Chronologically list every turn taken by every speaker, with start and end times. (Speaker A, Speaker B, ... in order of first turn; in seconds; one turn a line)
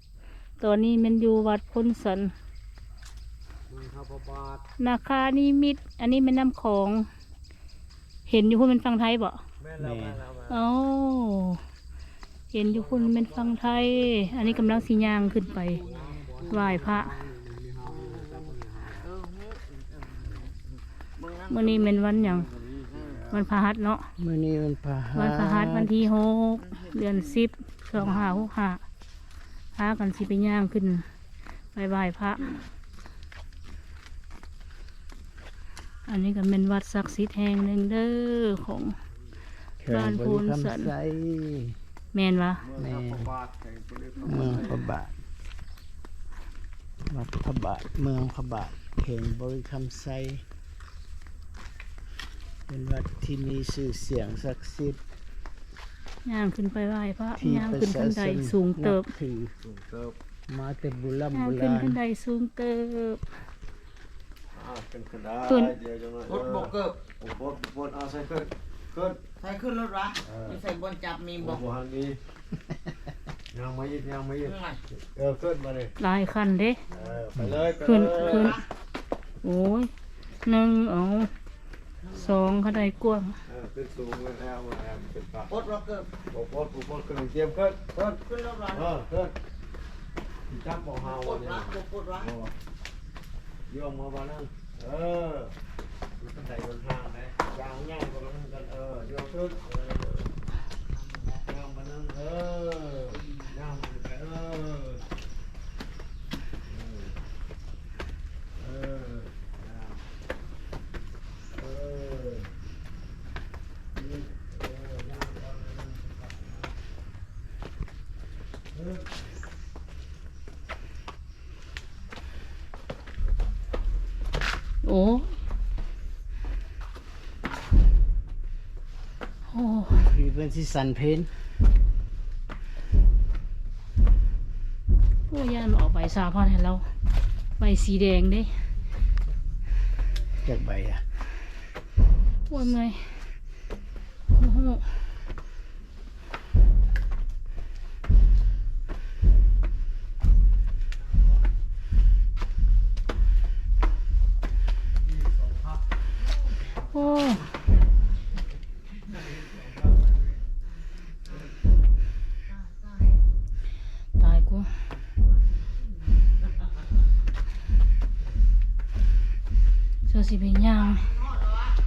Speaker A: 0.6-2.3
Speaker B: 3.7-4.6
Speaker A: 4.8-7.1
Speaker A: 8.3-9.4
Speaker B: 9.6-10.7
Speaker C: 9.8-10.2
Speaker A: 10.5-11.6
Speaker A: 12.5-15.8
Speaker B: 12.6-15.0
Speaker D: 15.2-15.7
Speaker B: 15.6-16.8
Speaker C: 15.9-19.0
Speaker A: 16.5-17.1
Speaker D: 17.9-21.9
Speaker B: 18.1-18.6
Speaker A: 21.5-22.5
Speaker B: 22.1-23.4
Speaker D: 22.9-23.2
Speaker A: 23.3-24.1
Speaker C: 24.2-26.1
Speaker A: 25.1-28.8
Speaker D: 26.7-27.2
Speaker D: 28.0-28.4
Speaker A: 29.7-31.0
Speaker A: 31.7-32.6
Speaker A: 36.1-38.9
Speaker C: 39.8-41.8
Speaker A: 39.9-40.9
Speaker A: 42.1-42.6
Speaker B: 42.6-44.9
Speaker C: 42.8-43.3
Speaker C: 44.2-45.1
Speaker C: 47.1-50.4
Speaker C: 52.7-55.0
Speaker A: 56.2-59.1
Speaker C: 57.4-59.5
Speaker B: 59.6-60.1
Speaker C: 60.5-62.0
Speaker A: 61.3-63.2
Speaker B: 64.5-69.2
Speaker A: 65.5-65.8
Speaker D: 66.3-67.0
Speaker D: 69.4-71.6
Speaker B: 70.2-70.7
Speaker B: 71.4-72.2
Speaker B: 73.5-75.9
Speaker D: 74.4-74.8
Speaker A: 76.0-76.8
Speaker D: 76.9-77.2
Speaker B: 76.9-78.6
Speaker C: 77.4-77.6
Speaker A: 77.8-78.6
Speaker D: 78.1-78.6
Speaker A: 79.4-79.9
Speaker A: 80.4-81.3
Speaker D: 82.0-82.8
Speaker A: 82.1-83.4
Speaker B: 83.5-85.5
Speaker D: 85.5-86.2
Speaker B: 86.3-88.0
Speaker D: 87.9-88.9
Speaker B: 88.7-89.3
Speaker B: 90.5-92.5
Speaker D: 91.0-92.3
Speaker B: 93.7-95.5
Speaker B: 96.2-100.3
Speaker D: 101.0-101.4
Speaker B: 101.5-105.0
Speaker B: 106.7-107.2
Speaker B: 108.6-110.0
Speaker B: 111.5-112.5
Speaker B: 113.9-116.7
Speaker B: 118.7-119.1
Speaker A: 124.8-125.3
Speaker A: 129.5-130.1
Speaker C: 129.9-131.3
Speaker A: 135.3-136.9
Speaker A: 137.6-138.5
Speaker C: 140.4-141.0
Speaker A: 142.5-143.2
Speaker A: 144.3-144.8
Speaker B: 155.0-155.8
Speaker A: 156.9-157.5
Speaker B: 157.0-157.3
Speaker B: 159.0-160.2
Speaker A: 164.1-164.7
Speaker A: 170.1-171.1
Speaker D: 170.8-171.7